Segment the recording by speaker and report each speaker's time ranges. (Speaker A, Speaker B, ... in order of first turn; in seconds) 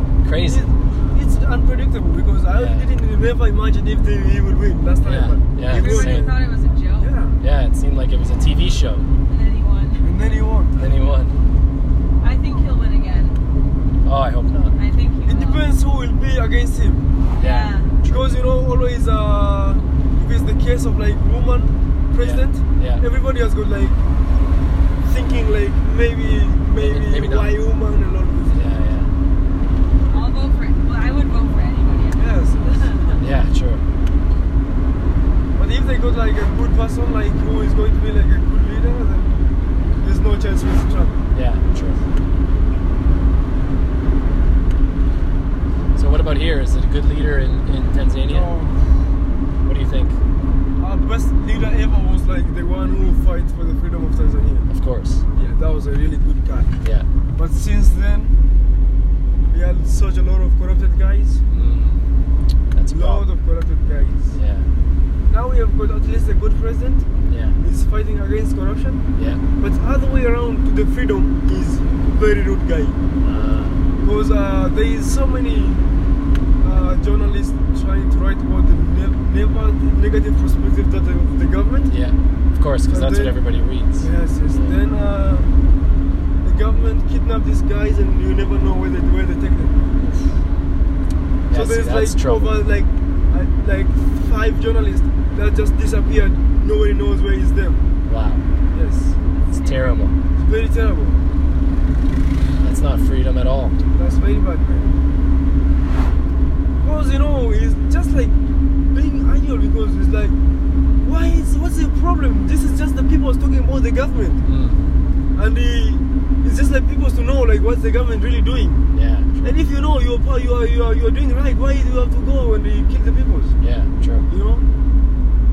Speaker A: 0.2-0.7, 2.5-2.9, 5.0-6.3, 7.4-9.1, 10.8-11.3, 14.0-14.7, 17.4-18.2, 22.2-23.0, 26.8-27.5, 28.5-29.1, 33.2-33.8, 41.3-42.0, 46.0-48.5, 49.6-50.2, 54.7-55.2, 56.8-57.1, 61.5-62.0, 62.7-63.2, 64.3-64.7, 67.3-67.6, 69.1-69.4, 73.2-73.8, 81.9-84.8, 91.5-92.6, 98.1-98.4, 99.5-100.2, 102.6-103.8, 114.4-114.8, 118.9-119.5, 123.6-124.2
Speaker B: 0.4-6.4, 7.0-7.4, 10.0-10.8, 15.2-17.0, 18.0-24.0, 25.0-28.6, 30.0-30.3, 32.1-32.9, 35.5-39.4, 40.0-41.2, 48.3-48.8, 50.8-54.7, 55.3-56.8, 57.3-58.3, 59.5-61.4, 62.9-64.4, 65.3-67.0, 67.6-69.0, 69.6-73.0, 74.0-75.9, 76.6-81.9, 82.9-83.4, 84.0-85.5, 86.4-89.8, 91.5-97.8, 98.7-99.2, 100.3-101.2, 103.9-104.9, 106.8-110.3, 111.0-114.4, 115.3-118.8, 119.4-123.5, 124.3-124.7
Speaker C: 5.7-7.2, 9.3-10.1, 12.2-13.4, 14.7-15.6, 17.3-18.0, 30.1-33.2, 99.3-100.1